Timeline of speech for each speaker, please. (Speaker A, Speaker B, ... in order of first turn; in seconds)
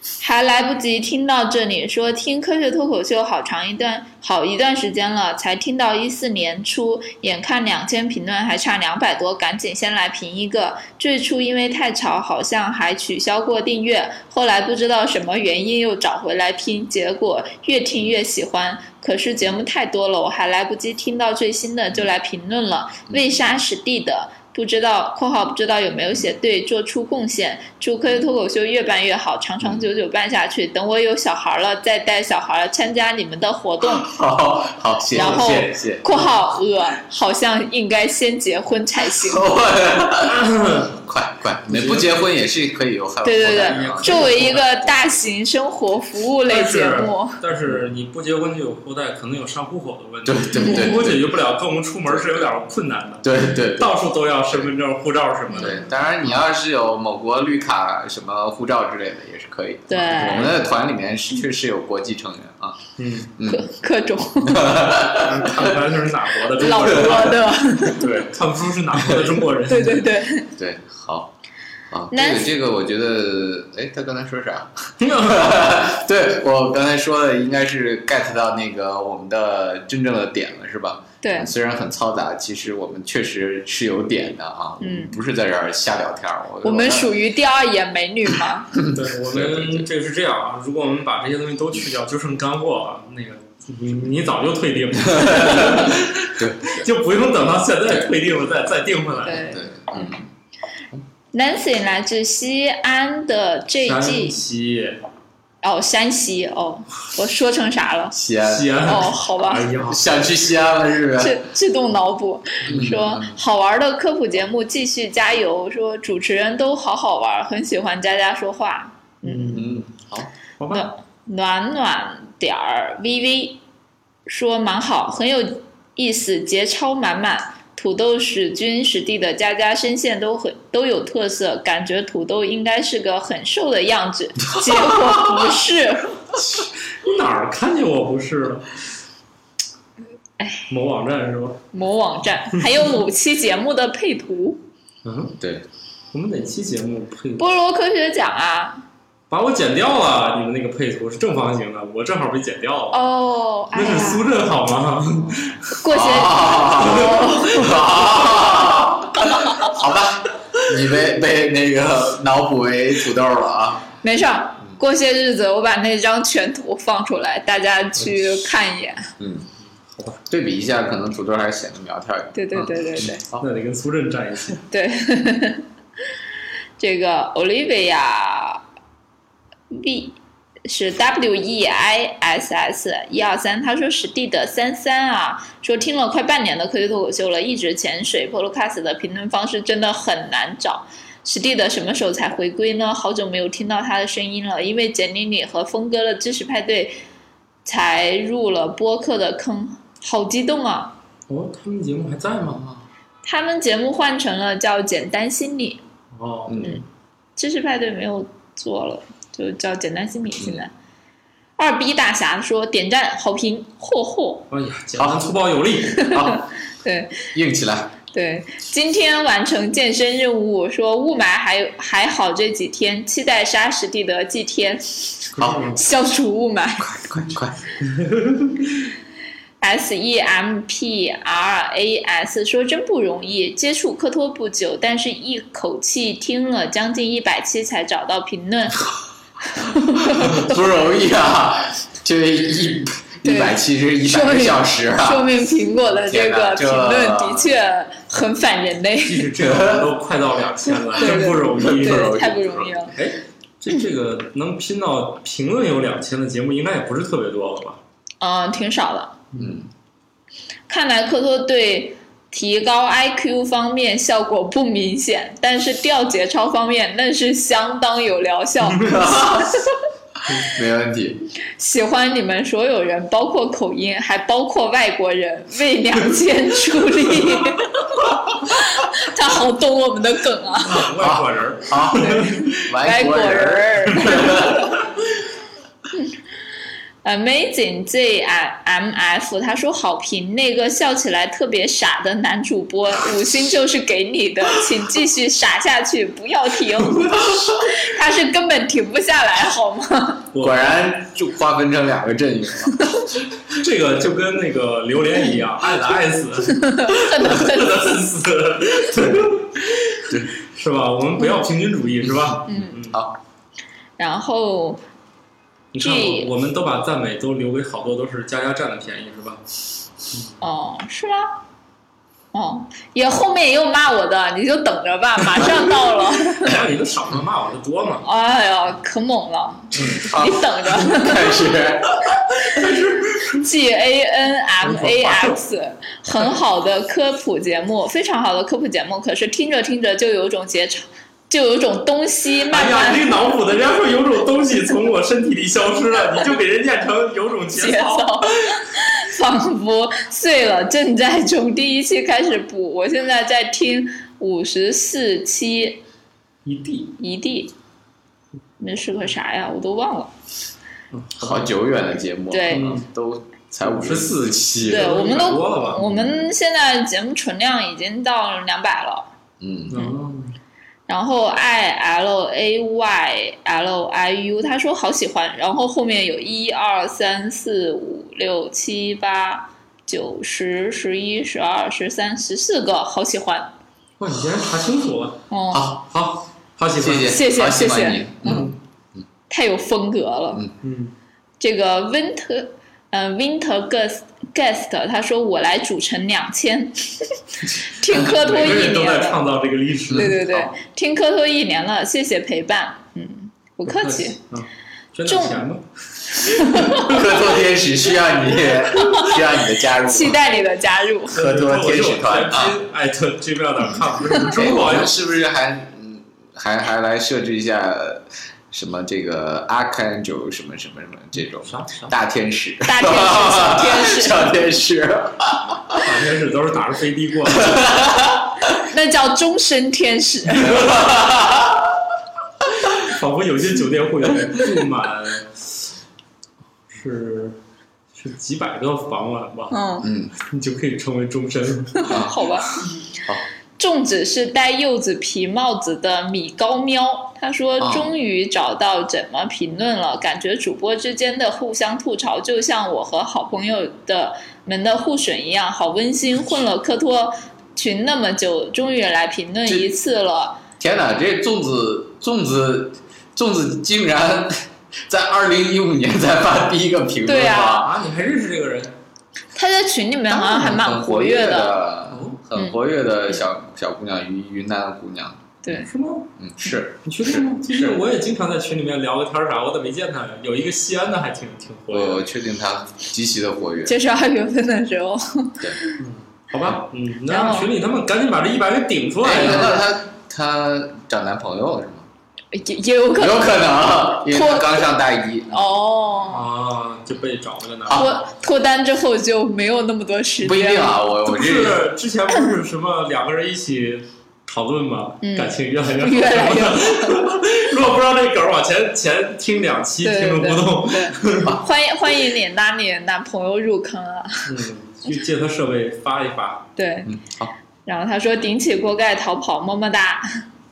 Speaker A: 0.2-34.1, 35.1-39.5, 43.2-47.4, 50.6-50.8, 59.9-60.5, 63.4-64.9, 66.6-68.1, 69.7-70.5, 72.1-72.5, 81.2-81.5, 84.8-85.2, 86.6-88.7, 99.2-100.2, 101.3-104.4, 105.6-108.2, 108.8-109.7, 111.2-119.7, 120.7-123.6, 124.3-136.3, 140.4-140.7, 141.7-144.6, 147.4-148.8, 152.9-154.3, 155.8-159.7, 164.0-169.1, 172.3-173.2, 174.7-175.7, 176.8-178.6, 179.7-197.0, 197.7-200.9, 203.2-205.8, 207.4-210.7, 211.6-214.4, 215.9-217.3, 218.1-224.8, 225.8-227.0, 229.6-238.9, 239.6-240.6, 243.2-249.3, 250.9-252.9, 258.2-259.2, 260.7-269.7, 271.6-280.9, 281.9-284.8, 287.0-300.3, 306.6-307.8, 312.5-312.8, 314.0-314.8, 315.8-316.3, 320.4-321.4, 322.3-326.6, 328.0-331.5, 333.4-343.1, 347.6-355.8, 357.0-357.5, 358.6-360.1, 362.3-362.6, 364.6-369.1, 370.9-383.5, 385.3-385.7, 387.0-388.1, 389.3-390.4, 391.4-399.2, 399.9-404.2, 405.1-405.4, 406.1-407.0, 408.7-409.2, 409.8-411.2, 422.6-424.3, 428.7-430.8, 439.5-439.9, 441.8-442.6, 443.6-460.4, 467.1-467.6, 469.4-471.6, 483.7-485.8, 487.1-487.5, 489.2-489.6, 492.3-494.8, 495.3-496.3, 497.7-500.8, 505.0-507.1, 509.8-514.3, 516.6-516.9, 517.6-520.2
Speaker B: 33.8-36.1, 39.2-44.5, 50.2-51.2, 52.1-52.5, 53.2-54.7, 55.5-63.7, 64.4-65.8, 66.8-67.2, 70.6-71.3, 71.9-87.1, 88.7-89.9, 95.1-96.9, 99.3-100.3, 108.1-108.8, 109.9-111.5, 112.7-113.4, 119.5-120.3, 145.4-145.7, 155.2-163.9, 169.2-169.5, 170.3-173.5, 202.4-202.8, 206.5-206.8, 215.0-215.3, 216.1-216.5, 217.3-218.0, 225.4-225.7, 226.8-227.7, 240.0-245.3, 245.9-247.5, 249.4-250.0, 251.2-252.8, 259.4-259.7, 268.8-269.5, 270.4-271.2, 281.0-284.7, 300.4-302.9, 312.8-313.2, 329.7-332.0, 361.2-365.0, 365.7-366.3, 369.4-369.8, 385.5-385.9, 386.8-389.0, 399.9-400.5, 406.8-410.2, 411.1-412.6, 414.3-425.9, 427.3-428.5, 430.4-431.8, 439.8-440.1, 441.9-442.3, 447.6-447.9, 460.6-467.7, 470.1-477.8, 481.7-483.8, 489.0-491.9, 493.0-495.5, 497.6-497.9, 500.2-501.6, 516.9-517.3
Speaker C: 40.3-40.9, 41.7-42.2, 43.4-45.0, 46.5-55.8, 60.0-60.6, 63.0-63.3, 65.1-70.1, 75.0-75.4, 88.9-99.5, 103.8-105.0, 108.4-110.2, 119.2-119.7, 120.6-120.9, 136.4-138.8, 140.7-141.6, 145.0-145.4, 146.1-147.5, 149.3-153.0, 153.7-155.7, 156.7-157.8, 168.0-168.3, 169.9-170.2, 173.4-174.6, 201.3-202.6, 206.1-206.8, 214.5-216.1, 225.3-225.8, 227.9-228.6, 249.0-252.2, 252.9-257.8, 259.3-259.6, 280.6-282.4, 300.3-300.8, 303.5-313.0, 315.7-319.4, 326.4-328.1, 332.5-333.4, 334.6-335.4, 342.5-348.3, 356.4-357.0, 360.9-361.5, 362.5-362.9, 363.6-365.8, 369.7-370.4, 384.0-387.1, 388.2-388.5, 390.6-390.9, 397.9-400.2, 403.7-407.0, 411.1-414.9, 421.4-422.0, 425.8-427.7, 432.7-435.7, 436.7-437.4, 437.9-439.6, 440.2-442.0, 467.5-468.8, 471.9-472.2, 475.6-476.1, 476.9-482.1, 485.8-489.6, 496.1-497.9, 501.1-511.4, 514.3-516.5